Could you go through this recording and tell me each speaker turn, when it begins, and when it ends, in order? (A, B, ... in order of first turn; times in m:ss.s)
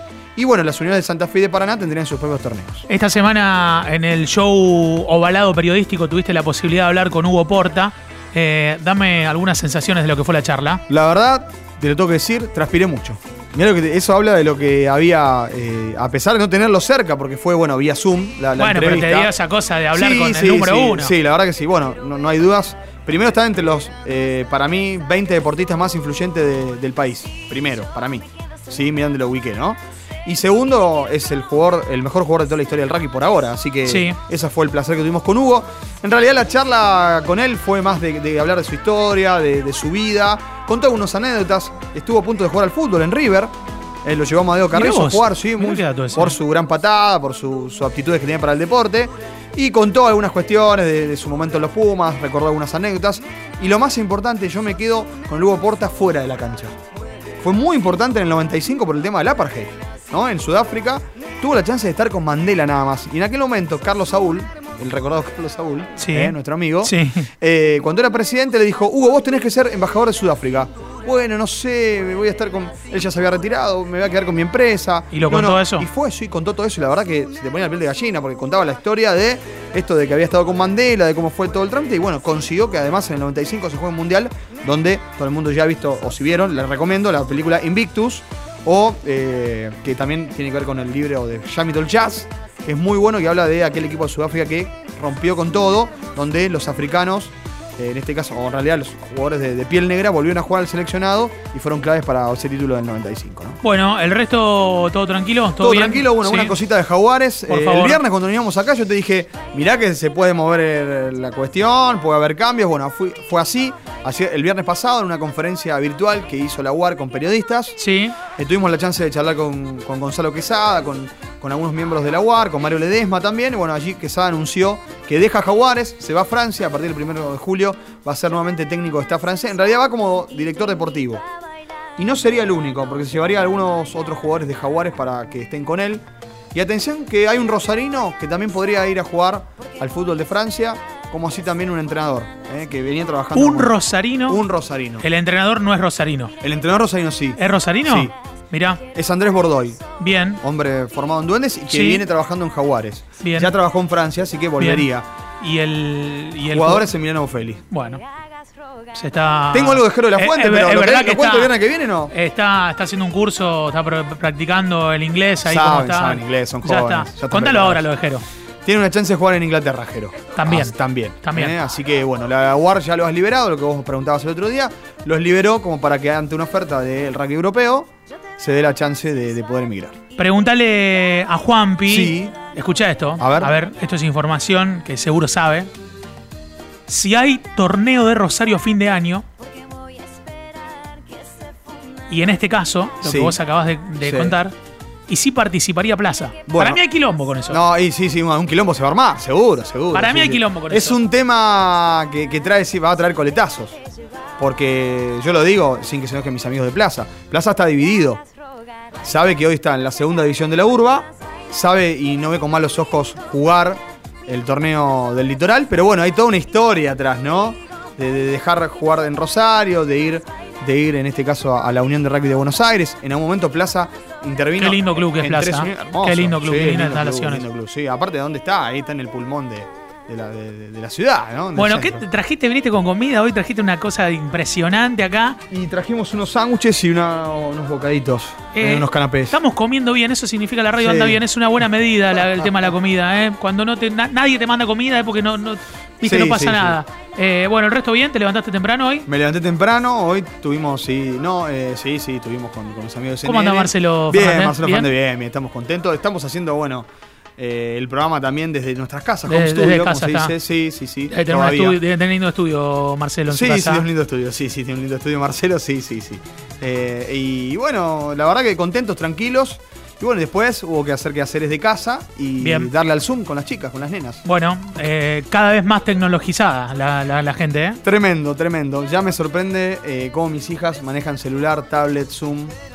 0:00.4-0:02.9 A
0:02.9-0:10.8 B
0:10.9-0:19.3 A
0:18.6-0:21.1 B
0:19.9-0:43.5 A
0:33.8-0:34.2 B
0:44.0-0:56.8 A
0:44.7-0:46.4 B
0:57.4-1:43.6 A
1:06.0-1:07.3 B
1:15.1-1:15.9 B
1:43.6-1:46.6 B
1:45.6-1:57.8 A
1:47.5-1:48.0 B
1:57.8-1:58.2 B
1:58.4-2:11.2 A
2:12.0-2:25.0 A
2:23.3-2:24.4 B
2:25.0-2:26.3 B
2:26.4-2:28.1 A
2:27.4-2:28.8 B
2:28.9-2:29.9 A
2:30.0-2:30.4 B
2:30.4-2:35.1 A
2:31.7-2:32.0 B
2:33.2-2:33.5 B
2:34.6-2:34.9 B
2:35.4-2:36.9 B
2:36.4-2:37.6 A
2:37.7-2:38.0 B
2:38.9-2:41.5 B
2:39.5-2:42.1 A
2:42.1-2:48.2 B
2:45.4-2:47.9 A
2:48.6-3:00.0 A
2:50.3-2:51.6 B
3:00.2-3:05.7 B
3:01.8-3:02.4 A
3:03.2-3:03.5 A
3:06.9-3:09.2 B
3:12.1-3:14.5 B
3:13.0-3:13.4 A
3:14.0-3:14.4 A
3:15.1-3:17.6 B
3:16.4-3:16.8 A
3:17.5-3:23.8 A
3:19.9-3:21.0 B
3:24.4-3:28.2 A
3:29.0-3:52.0 A
3:44.6-3:47.4 B
3:51.5-3:55.4 B
3:55.5-3:59.4 A
3:58.5-4:09.1 B
4:00.7-4:01.2 A
4:06.0-4:06.8 A
4:09.0-4:21.8 A
4:13.2-4:14.9 B
4:19.3-4:20.3 B
4:21.1-4:23.9 B
4:23.3-4:34.2 A
4:32.4-4:32.7 B
4:34.2-4:37.8 B
4:37.8-4:42.5 A